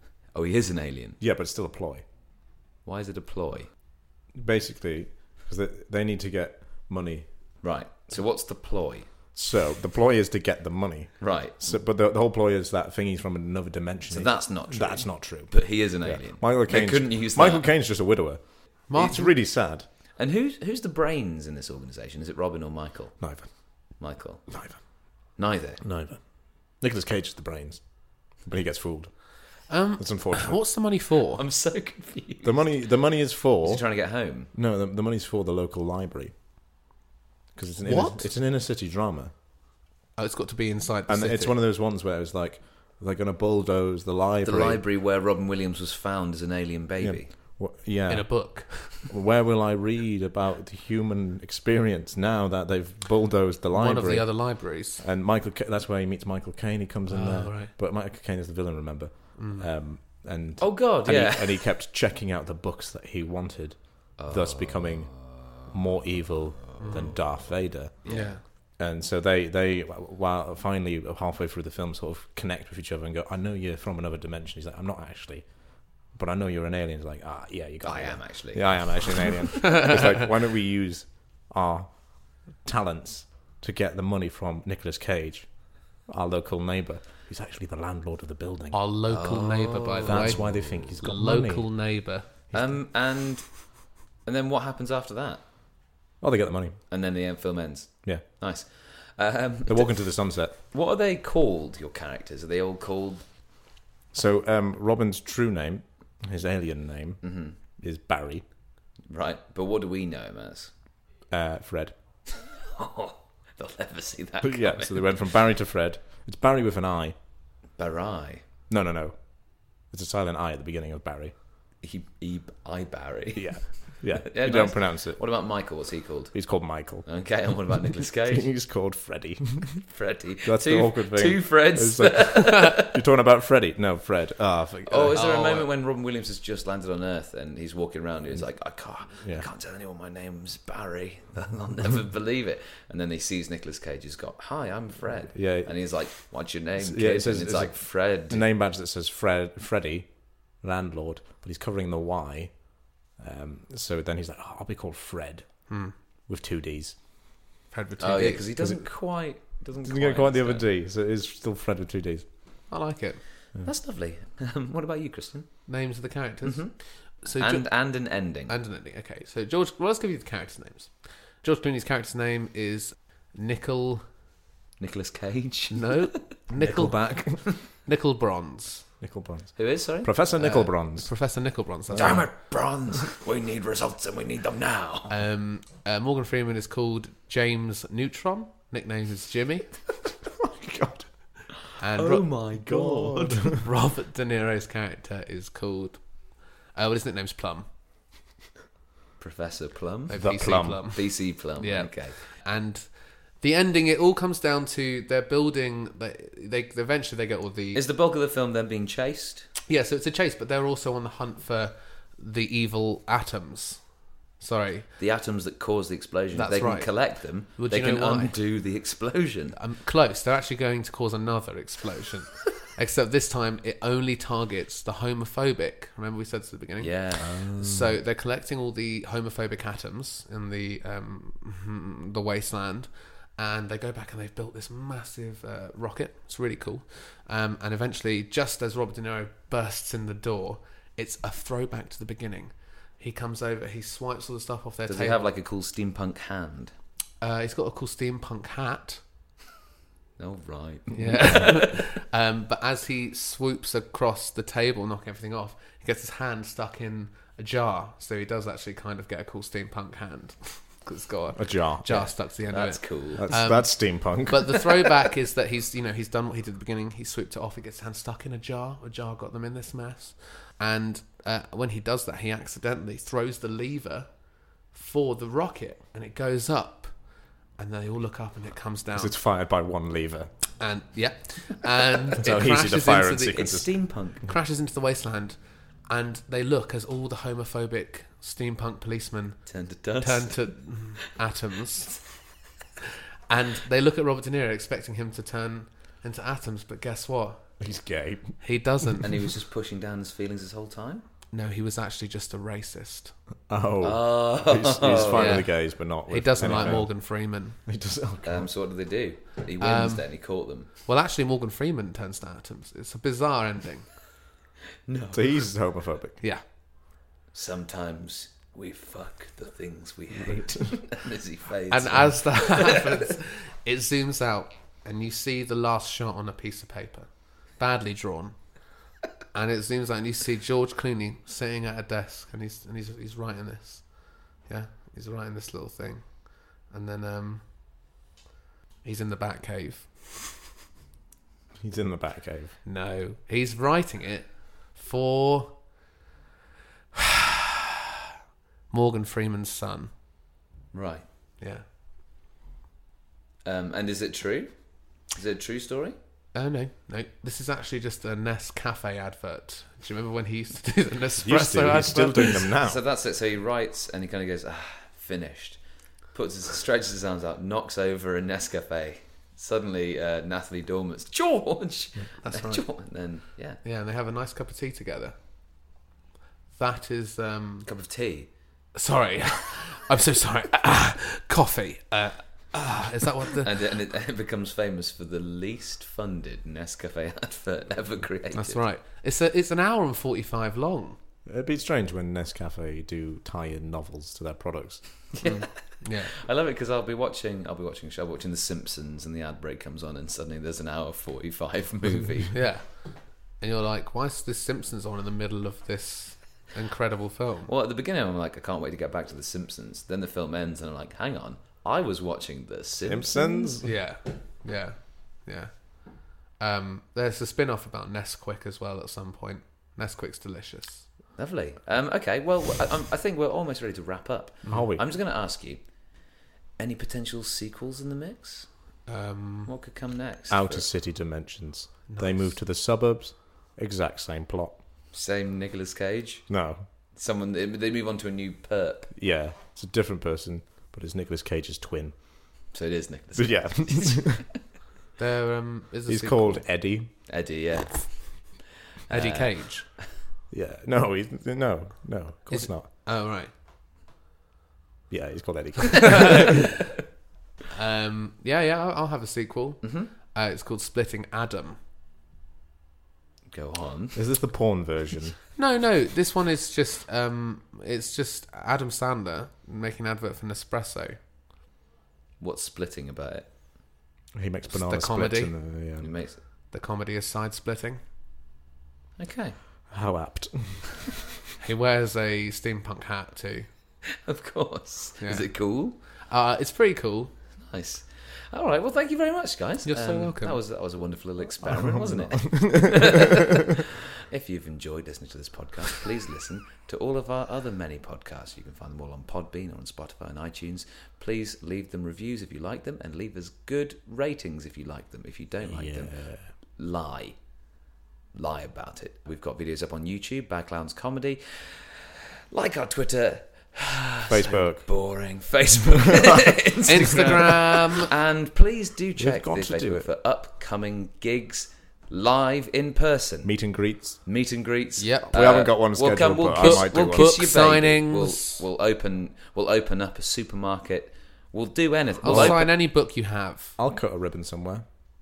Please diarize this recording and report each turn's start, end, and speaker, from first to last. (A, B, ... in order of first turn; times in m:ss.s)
0:00.3-0:01.2 A
0:01.2-0:02.0 B
0:02.8-0:03.7 A
0:04.3-0:07.6 B
0:07.6-0:09.1 A
0:09.3-0:19.8 B
0:11.2-0:11.8 A
0:14.1-0:17.7 A
0:18.9-0:19.3 C
0:20.2-0:25.8 A
0:23.2-0:30.6 B
0:29.7-0:31.4 C
0:31.4-0:32.8 A
0:32.4-0:36.3 B
0:33.6-0:34.5 A
0:37.5-0:39.3 B
0:37.8-0:38.3 C
0:40.2-0:41.6 C
0:41.1-0:44.8 B
0:44.4-0:47.3 A
0:47.0-1:28.8 B
0:48.1-0:49.1 C
0:53.7-0:55.0 C
0:57.0-0:57.7 C
0:59.3-0:59.7 C
1:00.6-1:01.7 A
1:04.2-1:05.7 A
1:06.7-1:07.3 A
1:06.8-1:07.2 C
1:08.0-1:08.4 A
1:08.0-1:08.4 C
1:17.8-1:19.5 A
1:28.7-1:32.3 C
1:29.1-1:31.0 A
1:30.0-1:31.9 B
1:32.5-1:32.8 B
1:32.5-1:35.4 A
1:36.2-1:36.8 B
1:36.9-1:43.4 A
1:39.7-1:40.5 B
1:44.1-1:48.4 B
1:47.2-1:47.6 A
1:49.1-1:50.7 A
1:51.3-1:51.9 B
1:52.3-1:55.1 A
1:54.4-1:57.1 B
1:57.8-1:58.4 A
1:58.7-2:01.4 B
2:01.8-2:06.4 A
2:03.3-2:05.2 B
2:06.3-2:07.1 B
2:07.0-2:08.5 A
2:07.6-2:09.9 B
2:09.9-2:13.0 A
2:10.4-2:15.2 B
2:14.8-2:28.4 A
2:15.1-2:15.7 C
2:19.2-2:19.5 B
2:25.3-2:25.7 B
2:26.8-2:37.0 B
2:35.7-2:35.9 C
2:37.7-2:38.5 C
2:38.0-2:40.6 A
2:38.6-2:38.8 B
2:39.8-2:42.2 B
2:42.7-2:43.2 C
2:43.5-2:45.7 A
2:45.7-2:54.0 C
2:46.4-2:48.5 A
2:54.8-2:56.2 A
2:55.7-2:58.8 C
2:56.6-2:57.4 B
2:59.0-3:01.1 B
2:59.6-3:00.1 A
3:00.4-3:02.3 C
3:01.9-3:02.3 B
3:02.0-3:05.1 A
3:05.1-3:09.7 C
3:10.3-3:11.1 B
3:11.8-3:12.3 C
3:11.9-3:13.6 A
3:12.5-3:13.6 B
3:13.5-3:16.2 C
3:16.7-3:17.6 C
3:19.2-3:20.4 A
3:20.1-3:27.8 C
3:20.2-3:20.9 B
3:20.9-3:22.2 A
3:27.7-3:29.5 A
3:29.7-3:33.8 C
3:34.4-3:34.9 C
3:35.0-3:39.6 A
3:36.3-3:38.4 C
3:39.5-4:05.2 C
3:46.8-3:47.4 A
3:47.2-3:47.9 B
4:04.9-4:06.7 A
4:07.2-4:09.0 C
4:10.2-4:11.8 A
4:10.9-4:34.1 C
4:21.3-4:22.1 B
4:22.5-4:23.4 A
4:23.2-4:24.5 B
4:34.7-4:37.0 C
4:37.6-4:39.1 C
4:38.9-4:40.3 B
4:40.6-4:43.6 C
4:42.2-4:43.7 B
4:43.3-4:44.2 A
4:44.2-4:45.4 C
4:45.9-4:49.5 C
4:49.4-4:50.5 A
4:50.0-4:52.0 C
4:53.3-4:57.4 C
4:57.6-4:58.4 B
4:58.4-4:59.1 C
4:59.0-5:01.0 A
5:01.3-5:03.1 C
5:03.5-5:06.9 B
5:03.8-5:05.5 A
5:05.1-5:07.6 C
5:06.4-5:06.8 A
5:07.6-5:08.5 B
5:08.2-5:10.7 A
5:09.6-5:10.1 C
5:10.8-5:14.0 C
5:14.9-5:15.2 A
5:15.1-5:16.2 B
5:17.3-5:22.8 A
5:20.1-5:20.8 B
5:21.7-5:28.5 C
5:29.3-5:37.4 C
5:38.8-5:40.4 C
5:41.6-5:42.6 B
5:42.6-5:45.6 C
5:48.7-5:49.9 C
5:50.7-5:51.0 A
5:51.4-5:51.6 C
5:53.4-5:56.0 A
5:56.3-6:02.5 C
6:01.2-6:02.8 B
6:02.6-6:13.6 A
6:12.2-6:12.7 C
6:13.6-6:15.1 C
6:16.6-6:17.7 C
6:17.6-6:18.3 A
6:18.7-6:23.6 C
6:23.4-6:28.6 A
6:28.3-6:31.0 C
6:31.2-6:35.1 B
6:35.1-6:42.4 A
6:35.2-6:36.1 C
6:42.3-6:42.9 C
6:43.4-6:47.5 C
6:47.5-6:53.5 A
6:52.8-6:53.7 B
6:53.6-7:00.9 C
7:01.1-7:05.7 A
7:04.5-7:04.8 B
7:06.6-7:08.5 A
7:08.9-7:09.5 C
7:09.4-7:10.6 A
7:10.3-7:14.6 B
7:11.9-7:12.3 C
7:14.9-7:16.3 A
7:16.3-7:16.6 B
7:16.9-7:18.9 A
7:18.9-7:22.5 B
7:22.5-7:24.3 A
7:23.1-7:24.2 B
7:25.0-7:26.4 C
7:25.9-7:26.9 B
7:27.1-7:29.8 A
7:28.9-7:29.6 C
7:30.3-7:32.7 B
7:32.3-7:33.3 C
7:34.9-7:36.3 B
7:36.0-7:36.2 A
7:36.0-7:36.4 C
7:37.5-7:41.6 C
7:39.6-7:39.9 A
7:43.3-7:44.0 A
7:43.9-7:45.2 B
7:45.4-7:51.0 C
7:52.2-7:53.3 A
7:54.1-7:55.9 B
7:54.5-7:55.3 C
7:55.8-7:56.2 A
7:56.5-7:57.8 C
7:59.0-7:59.4 A
7:59.7-8:01.0 B
8:01.4-8:03.5 C
8:04.0-8:05.8 A
8:05.0-8:05.3 C
8:06.1-8:07.1 C
8:07.5-8:27.2 A
8:09.6-8:10.4 C
8:11.4-8:13.2 B
8:25.4-8:26.3 B
8:28.1-8:52.5 A
8:34.1-8:34.7 B
8:36.6-8:37.9 C
8:39.0-8:39.9 B
8:43.2-8:44.0 B
8:44.8-8:45.1 C
8:45.1-8:47.2 B
8:46.4-8:48.4 C
8:52.0-8:53.5 C
8:52.0-8:52.5 B
8:53.6-8:54.6 B